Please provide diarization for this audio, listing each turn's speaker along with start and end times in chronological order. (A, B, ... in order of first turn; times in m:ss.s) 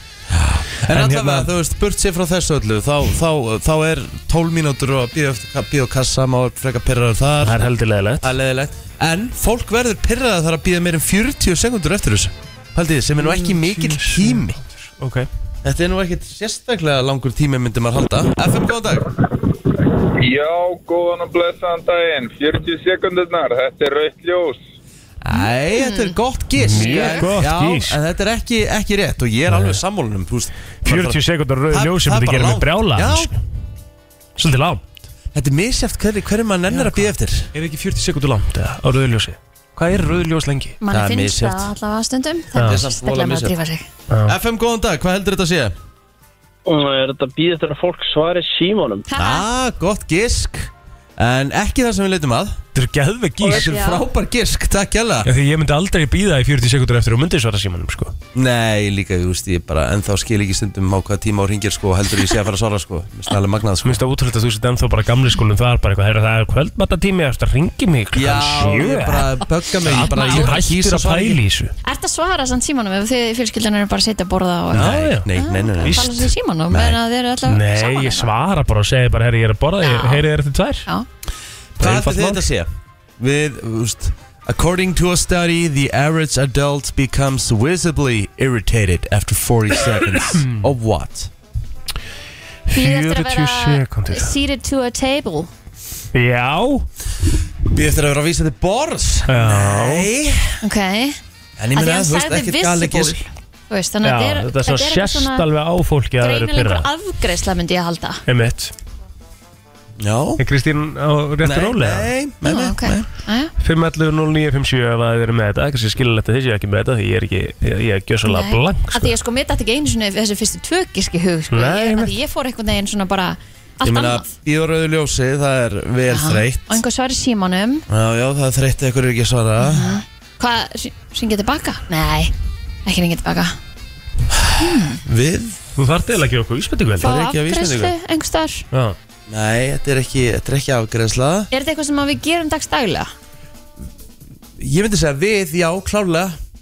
0:00.3-0:07.7 A
0:00.9-0:01.5 B
0:07.4-0:08.3 B
0:08.2-0:14.6 A
0:13.2-0:15.3 B
0:15.6-0:19.1 A
0:20.2-0:24.6 C
0:25.2-0:33.3 A
0:25.7-0:26.2 D
0:26.6-0:28.0 B
0:29.5-0:29.8 B
0:30.8-0:33.4 B
0:34.4-0:34.8 B
0:35.3-0:37.5 A
0:36.7-0:40.8 B
0:40.8-0:43.9 D
0:40.9-0:41.7 A
0:42.6-0:42.8 B
0:42.6-0:43.6 A
0:44.1-0:44.4 B
0:44.3-0:45.7 A
0:46.7-0:49.0 E
0:49.1-0:49.5 D
0:49.2-0:52.6 A
0:52.8-0:53.8 B
0:53.4-0:55.3 A
0:53.5-0:54.0 D
0:55.2-0:58.2 B
0:58.3-1:04.0 A
1:03.8-1:11.7 B
1:08.1-1:11.4 A
1:09.9-1:10.6 D
1:11.8-1:18.3 D
1:14.7-1:16.3 B
1:14.7-1:17.0 A
1:17.4-1:20.9 B
1:19.8-1:20.2 D
1:21.8-1:22.5 B
1:21.8-1:31.3 A
1:32.7-1:34.3 B
1:32.7-1:35.5 D
1:36.1-1:36.9 B
1:37.7-1:40.6 A
1:39.3-1:40.1 B
1:40.6-1:41.2 D
1:41.6-1:43.2 A
1:41.8-1:45.4 D
1:44.0-1:46.9 B
1:46.2-1:48.2 D
1:48.3-1:48.7 B
1:50.0-1:50.4 A
1:50.4-1:52.1 B
1:51.4-1:53.1 A
1:52.4-1:53.5 D
1:53.6-1:59.1 B
1:58.3-2:04.3 D
2:01.5-2:02.1 B
2:03.8-2:06.8 A
2:06.1-2:07.8 D
2:07.9-2:10.0 A
2:09.6-2:12.3 D
2:12.8-2:13.6 D
2:14.3-2:15.6 A
2:14.6-2:15.0 D
2:15.8-2:17.1 B
2:17.0-2:18.6 D
2:17.0-2:17.9 A
2:18.7-2:19.0 B
2:19.3-2:21.5 A
2:21.5-2:23.1 D
2:24.6-2:26.4 A